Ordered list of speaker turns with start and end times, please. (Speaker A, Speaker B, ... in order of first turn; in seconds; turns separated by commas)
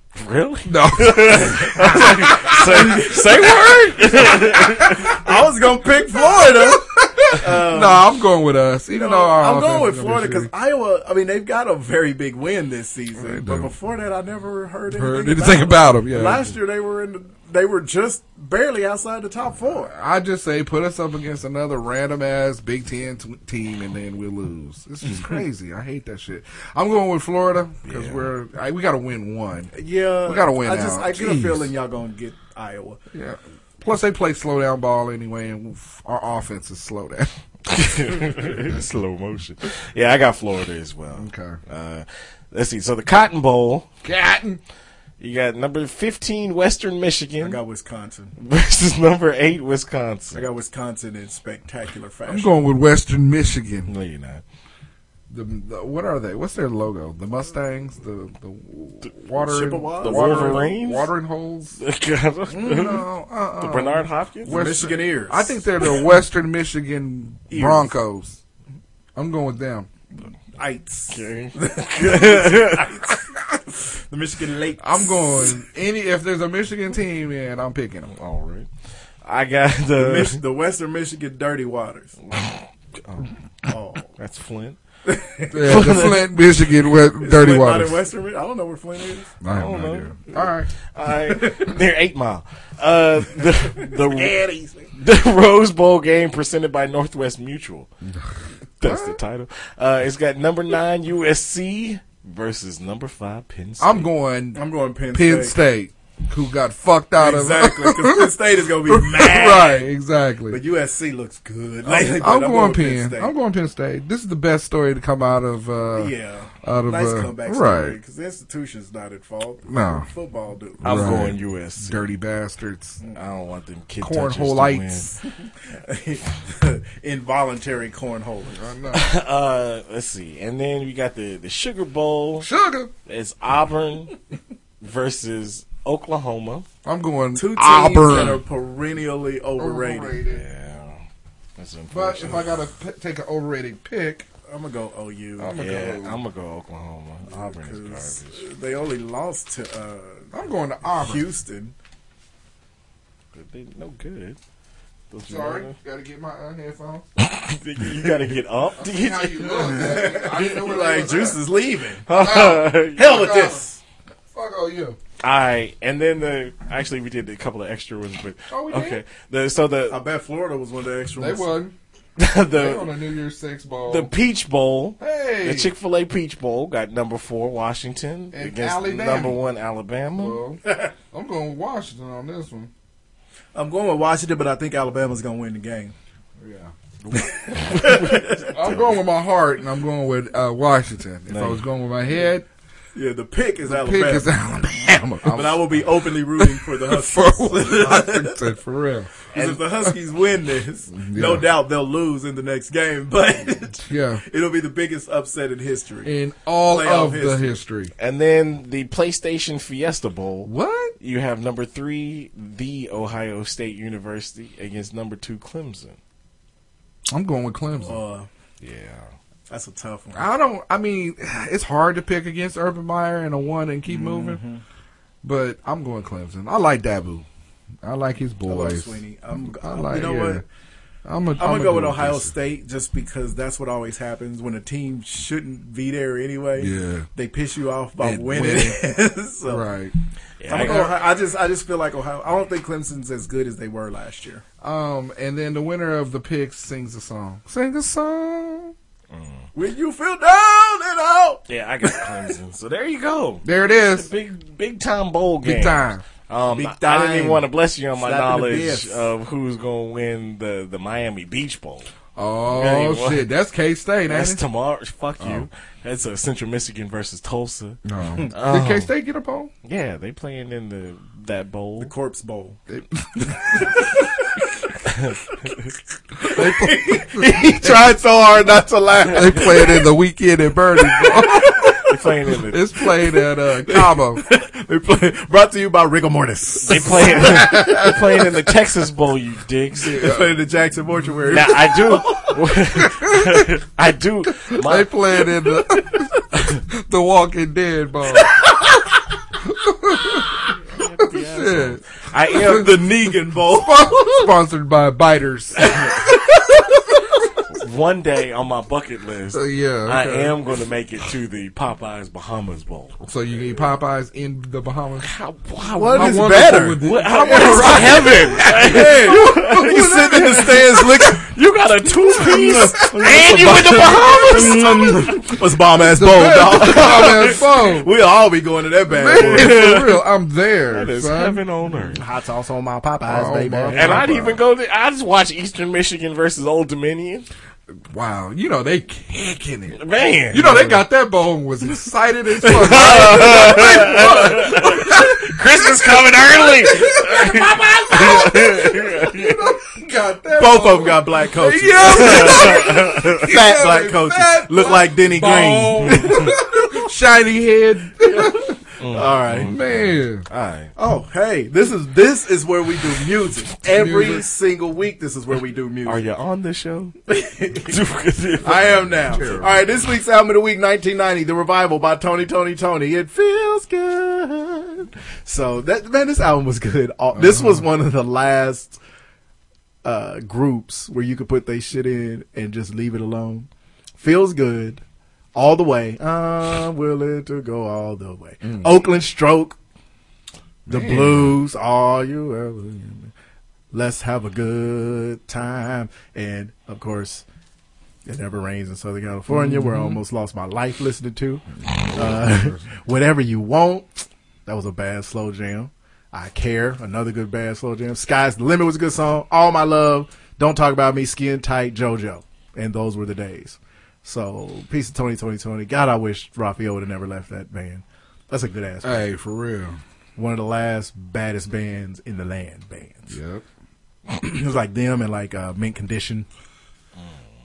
Speaker A: 0.1-5.2, Speaker B: 0.7-5.2, Speaker C: 5.1-8.1, Speaker B: 6.4-10.5, Speaker C: 8.9-19.9, Speaker B: 13.2-13.7, Speaker B: 14.9-16.5, Speaker B: 19.7-31.7, Speaker A: 27.9-28.2, Speaker C: 29.7-33.0, Speaker B: 33.1-37.3, Speaker A: 37.7-43.9, Speaker B: 41.1-41.6, Speaker B: 44.0-44.6, Speaker A: 45.2-47.6, Speaker C: 47.4-48.3, Speaker A: 48.4-50.4, Speaker C: 50.3-52.5, Speaker B: 52.3-53.9, Speaker A: 53.9-54.4, Speaker B: 55.3-61.8, Speaker C: 59.4-60.6, Speaker A: 60.0-61.1, Speaker A: 61.8-63.0, Speaker B: 62.5-68.4, Speaker A: 63.6-64.6, Speaker C: 64.5-65.6, Speaker C: 67.5-67.9, Speaker B: 69.2-69.9, Speaker C: 70.5-75.6, Speaker A: 71.1-72.8, Speaker B: 74.8-78.1, Speaker A: 78.1-78.7, Speaker A: 79.2-80.4, Speaker C: 80.0-82.1, Speaker A: 82.2-83.3, Speaker C: 83.6-84.1, Speaker A: 84.2-84.8, Speaker C: 85.0-86.0, Speaker B: 85.5-88.0, Speaker A: 85.6-86.2, Speaker C: 87.2-89.3, Speaker B: 89.4-90.7, Speaker A: 89.5-94.3, Speaker C: 91.3-91.7, Speaker C: 93.8-94.9, Speaker A: 95.0-97.9, Speaker B: 98.8-99.2, Speaker A: 98.8-104.1, Speaker B: 103.8-108.3, Speaker C: 104.5-105.6, Speaker C: 107.2-109.9, Speaker B: 108.8-110.6, Speaker C: 110.5-113.3, Speaker B: 111.8-116.1, Speaker C: 115.9-121.3, Speaker B: 116.6-118.0, Speaker B: 119.7-120.1, Speaker A: 120.8-122.0, Speaker B: 120.8-123.0, Speaker A: 123.1-125.1, Speaker B: 124.0-125.2, Speaker C: 125.7-128.6, Speaker B: 128.5-129.0, Speaker A: 128.9-132.5, Speaker B: 132.4-132.9, Speaker A: 133.1-134.1, Speaker A: 134.8-136.7, Speaker B: 136.8-138.4, Speaker C: 137.3-140.2, Speaker B: 139.6-140.4, Speaker A: 140.3-141.0, Speaker A: 141.6-142.5, Speaker B: 141.9-144.3, Speaker C: 144.5-145.6, Speaker B: 145.4-146.2, Speaker A: 145.5-148.4, Speaker C: 147.3-150.3, Speaker B: 150.3-151.3, Speaker C: 150.9-151.7, Speaker A: 153.3-154.4, Speaker A: 155.1-155.7, Speaker B: 155.2-157.1, Speaker A: 157.2-160.0, Speaker B: 158.0-161.4, Speaker C: 159.6-162.1, Speaker A: 162.1-163.3, Speaker B: 162.1-163.6, Speaker C: 163.0-163.8, Speaker B: 164.3-165.0, Speaker A: 165.2-170.0, Speaker B: 168.5-169.0, Speaker C: 169.9-171.6, Speaker B: 171.2-171.7, Speaker A: 172.2-172.9, Speaker B: 172.5-174.1, Speaker A: 173.9-180.4, Speaker B: 175.0-175.7, Speaker B: 178.3-179.4, Speaker B: 180.2-182.7, Speaker C: 183.5-185.9, Speaker B: 186.4-186.7, Speaker A: 187.0-188.8, Speaker C: 187.5-188.5, Speaker B: 188.5-192.4, Speaker A: 191.3-191.6, Speaker C: 192.9-194.3, Speaker B: 193.6-195.8, Speaker C: 195.3-198.4, Speaker B: 196.4-199.1, Speaker C: 199.3-207.6, Speaker A: 199.3-199.6, Speaker B: 200.9-201.5, Speaker B: 203.8-204.2, Speaker B: 206.0-207.9, Speaker A: 208.0-216.0, Speaker B: 210.4-210.9, Speaker B: 217.1-218.0, Speaker C: 217.8-218.3, Speaker A: 218.6-219.1, Speaker C: 219.5-220.3, Speaker B: 220.1-224.4, Speaker C: 223.9-224.6, Speaker B: 225.2-227.2, Speaker B: 227.8-230.4, Speaker C: 228.4-230.4, Speaker B: 231.0-232.3, Speaker C: 231.4-239.7, Speaker B: 236.6-237.1, Speaker B: 238.0-238.8, Speaker B: 239.4-239.9, Speaker A: 240.4-240.9, Speaker C: 240.5-244.4, Speaker B: 240.5-240.9, Speaker B: 244.6-248.7, Speaker A: 249.1-249.5, Speaker C: 249.5-252.1, Speaker A: 251.5-261.9, Speaker B: 253.4-254.1, Speaker B: 255.4-256.0, Speaker C: 256.5-259.0, Speaker B: 262.1-264.4, Speaker A: 262.5-263.2, Speaker A: 264.1-267.8, Speaker B: 265.2-265.5, Speaker B: 267.9-269.5, Speaker A: 268.3-268.9, Speaker A: 269.6-271.9, Speaker C: 271.8-272.6, Speaker B: 272.7-273.7, Speaker C: 273.5-274.1, Speaker B: 276.2-277.8, Speaker C: 276.3-279.9, Speaker B: 279.1-281.8, Speaker C: 280.8-281.8, Speaker A: 281.8-282.6, Speaker B: 282.5-284.2, Speaker C: 283.0-287.9, Speaker A: 286.6-290.0, Speaker B: 286.8-287.9, Speaker B: 289.8-290.3, Speaker C: 290.0-292.4, Speaker A: 291.3-294.9, Speaker B: 294.6-296.2, Speaker A: 296.3-296.6, Speaker B: 296.8-298.3, Speaker B: 299.4-300.4, Speaker A: 300.6-302.8, Speaker B: 301.1-301.8, Speaker B: 302.3-302.7, Speaker C: 302.4-304.3, Speaker B: 303.5-305.7, Speaker A: 305.6-306.0, Speaker C: 305.7-307.0, Speaker A: 307.5-313.0, Speaker B: 309.3-310.4, Speaker B: 313.0-315.1, Speaker A: 315.0-316.2, Speaker C: 315.7-321.3, Speaker B: 315.9-320.8, Speaker A: 316.8-325.3, Speaker C: 321.9-329.7, Speaker B: 325.8-327.9, Speaker A: 326.6-327.4, Speaker B: 328.9-331.4, Speaker A: 329.1-330.0, Speaker A: 330.7-332.0, Speaker C: 331.8-334.4, Speaker B: 333.1-334.3, Speaker A: 333.7-337.2, Speaker B: 337.9-345.2, Speaker A: 339.8-340.7, Speaker A: 342.5-349.4, Speaker C: 342.7-344.1, Speaker B: 345.7-358.5, Speaker C: 350.3-356.9, Speaker A: 351.9-353.2, Speaker A: 355.9-356.3, Speaker C: 358.0-359.5, Speaker A: 358.8-360.7, Speaker B: 359.5-360.2, Speaker C: 360.8-366.1, Speaker B: 363.7-364.2, Speaker A: 365.8-366.9, Speaker C: 367.1-367.7, Speaker A: 367.6-368.9, Speaker C: 368.4-378.8, Speaker B: 369.0-369.5, Speaker B: 377.1-377.6, Speaker C: 379.8-384.8, Speaker C: 385.3-389.6, Speaker B: 388.4-388.7, Speaker B: 390.7-391.4, Speaker C: 390.7-393.1, Speaker C: 393.7-397.2, Speaker C: 398.0-419.1, Speaker B: 399.3-400.0, Speaker B: 401.6-402.7, Speaker B: 418.8-419.8, Speaker C: 420.1-423.2, Speaker B: 423.1-423.4, Speaker C: 424.1-426.3